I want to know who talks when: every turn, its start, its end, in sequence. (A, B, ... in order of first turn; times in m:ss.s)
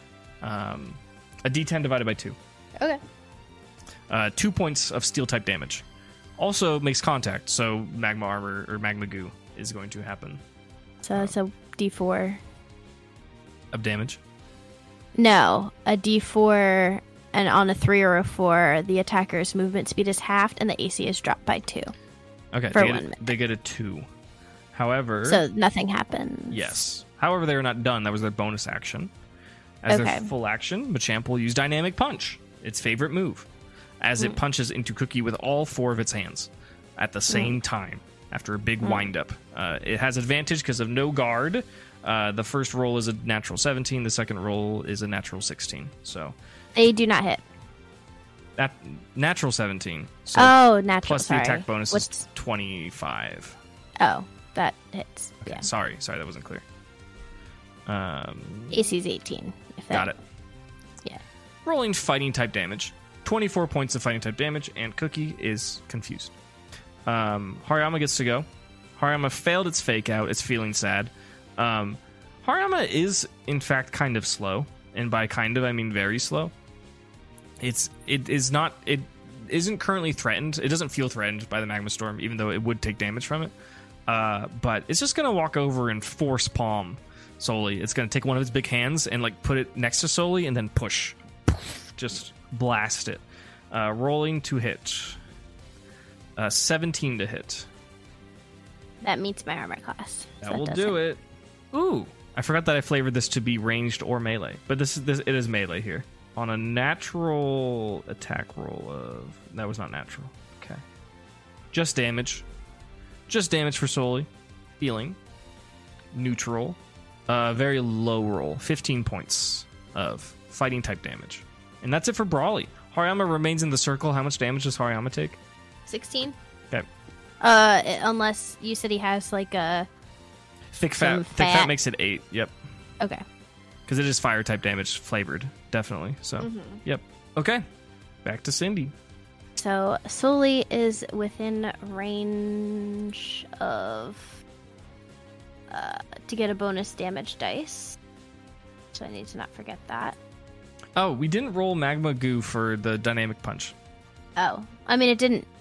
0:00.4-0:02.4 A
0:04.1-0:05.8 A
0:06.4-0:10.4 A
0:11.0-0:12.4 B
0:13.7-0:14.2 A
0:15.2-0:21.9 B
0:22.5-0:24.0 A
0:22.7-0:23.3 B
0:24.7-0:25.4 A
0:25.2-0:26.8 B
0:26.5-0:29.1 A
0:29.8-0:33.5 A
0:29.9-0:30.3 B
0:34.0-0:46.4 A
0:37.3-0:37.6 B
0:38.8-0:39.1 B
0:46.8-0:47.4 B
0:48.6-0:53.6 A
0:50.4-0:52.2 B
0:54.0-0:55.7 B
0:55.4-0:56.6 A
0:57.9-0:58.8 A
0:58.7-1:00.1 B
0:59.9-1:00.2 A
1:01.7-1:06.4 A
1:07.1-1:08.5 A
1:09.0-1:16.5 A
1:17.6-1:23.5 A
1:24.1-1:35.2 A
1:36.4-1:37.7 A
1:39.0-1:41.0 B
1:40.4-1:41.2 A
1:41.7-1:50.8 A
1:51.7-1:52.4 A
1:53.3-1:54.3 A
1:54.8-1:55.2 A
1:56.1-2:05.4 A
2:05.9-2:06.4 B
2:07.4-2:09.9 B
2:10.7-2:12.5 A
2:11.0-2:11.7 B
2:13.9-2:17.6 A
2:16.4-2:16.8 B
2:18.2-2:18.9 A
2:19.6-2:24.4 B
2:25.7-2:28.0 B
2:28.9-2:30.2 B
2:31.0-2:33.7 A
2:34.4-2:35.5 B